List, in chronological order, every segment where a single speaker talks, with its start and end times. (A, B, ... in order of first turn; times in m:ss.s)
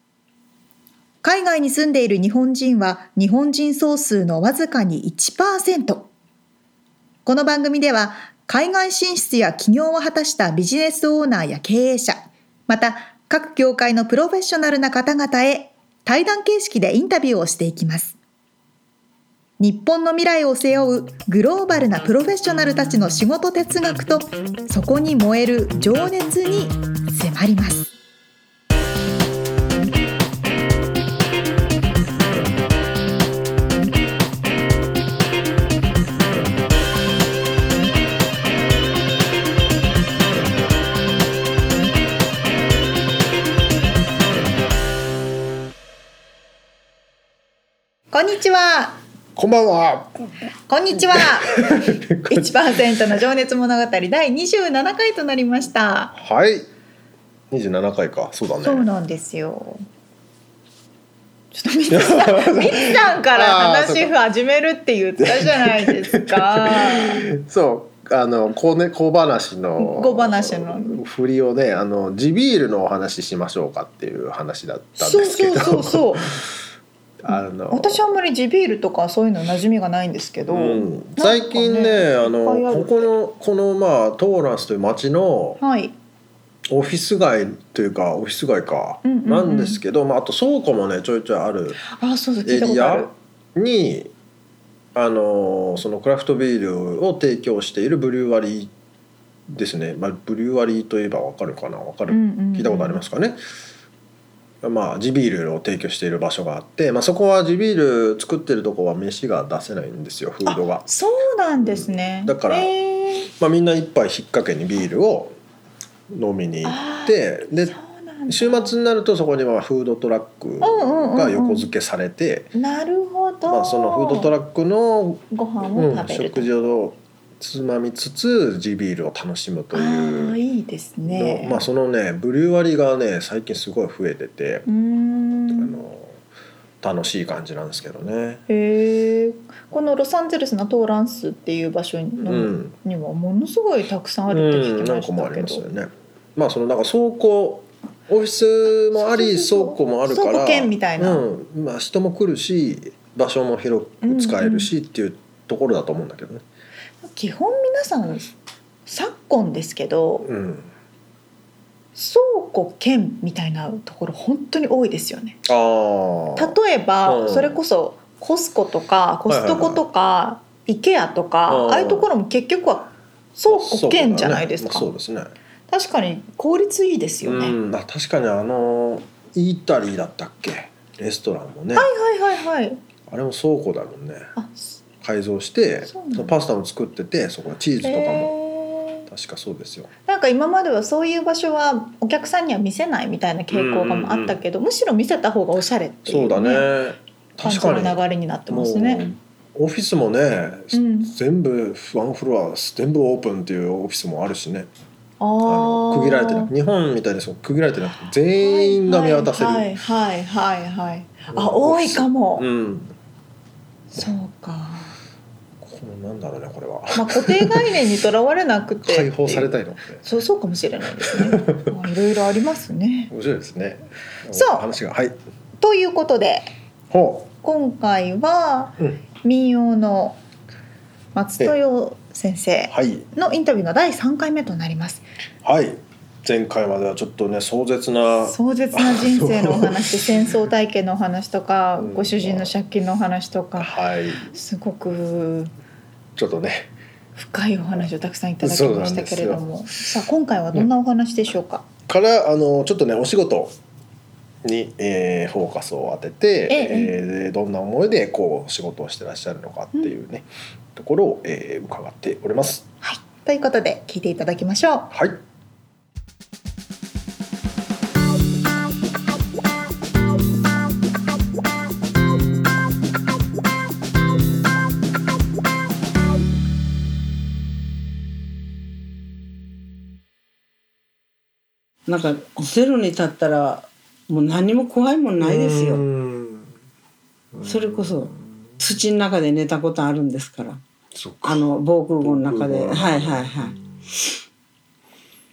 0:01.2-0:06.1 A
0:07.2-0:18.2 A
0:19.6-0:27.9 A
0:48.1-0:49.0 A
0:49.4-0:50.3 B
0:50.7-0:56.2 A
0:51.0-0:52.5 B
0:56.1-0:56.7 B
0:57.5-0:58.9 B
0:58.6-0:59.8 A
1:01.5-1:07.3 A
1:01.9-1:04.2 B
1:05.2-1:16.5 B
1:09.8-1:11.0 A
1:15.0-1:16.3 A
1:17.2-1:18.1 B
1:17.3-1:23.1 A
1:20.5-1:25.6 B
1:25.6-1:26.0 A
1:26.7-1:31.8 B
1:29.0-1:29.8 A
1:31.8-1:33.1 A
1:32.4-1:34.1 B
1:35.0-1:38.7 B
1:39.5-1:43.4 B
1:42.1-1:43.0 A
1:44.6-1:50.9 B
1:50.5-1:53.3 A
1:51.6-1:55.3 B
1:56.1-1:57.8 B
1:56.6-1:58.8 A
1:58.3-2:02.5 B
2:00.6-2:01.7 A
2:02.6-2:04.3 A
2:03.5-2:10.4 B
2:05.3-2:06.5 A
2:09.7-2:11.7 A
2:11.1-2:14.7 B
2:14.7-2:15.8 A
2:15.5-2:16.2 B
2:16.8-2:18.4 B
2:18.5-2:25.7 A
2:22.2-2:22.7 B
2:24.3-2:36.4 B
2:28.9-2:31.3 A
2:34.0-2:34.7 A
2:37.0-2:38.3 A
2:38.9-2:40.3 A
2:40.2-2:40.7 B
2:42.0-2:45.4 A
2:45.4-2:47.6 B
2:46.4-2:54.9 A
2:49.3-2:49.8 B
2:51.5-2:52.1 B
2:53.5-2:55.3 B
2:55.7-2:57.6 A
2:57.2-3:01.9 B
3:01.8-3:02.8 A
3:03.1-3:04.3 B
3:04.4-3:04.8 A
3:05.0-3:08.3 B
3:05.9-3:06.4 A
3:07.8-3:09.1 A
3:09.1-3:09.9 B
3:10.1-3:16.7 A
3:13.5-3:14.4 B
3:16.1-3:24.7 B
3:17.4-3:19.0 A
3:20.7-3:21.2 A
3:25.2-3:26.5 A
3:25.4-3:29.8 B
3:28.4-3:32.5 A
3:31.3-3:33.0 B
3:33.9-3:35.0 A
3:35.6-3:37.8 B
3:37.0-3:43.1 A
3:38.8-3:40.0 B
3:41.0-3:41.8 B
3:43.1-3:45.2 B
3:44.3-3:44.7 A
3:45.6-3:46.5 A
3:46.9-3:47.3 B
3:47.4-3:50.2 A
3:51.2-3:55.0 A
3:52.7-3:53.1 B
3:55.4-4:00.4 B
3:58.2-4:05.5 A
4:01.8-4:02.5 B
4:03.6-4:04.3 B
4:06.2-4:06.7 B
4:07.2-4:11.7 A
4:08.4-4:09.5 B
4:11.9-4:13.6 B
4:14.4-4:22.7 B
4:16.5-4:16.9 A
4:22.8-4:24.9 A
4:24.9-4:25.2 B
4:41.9-4:45.8 C
4:45.2-4:46.6 B
4:47.3-4:48.6 B
4:47.4-4:50.6 C
4:50.9-4:51.4 B
4:51.2-4:53.6 C
4:52.0-4:53.9 B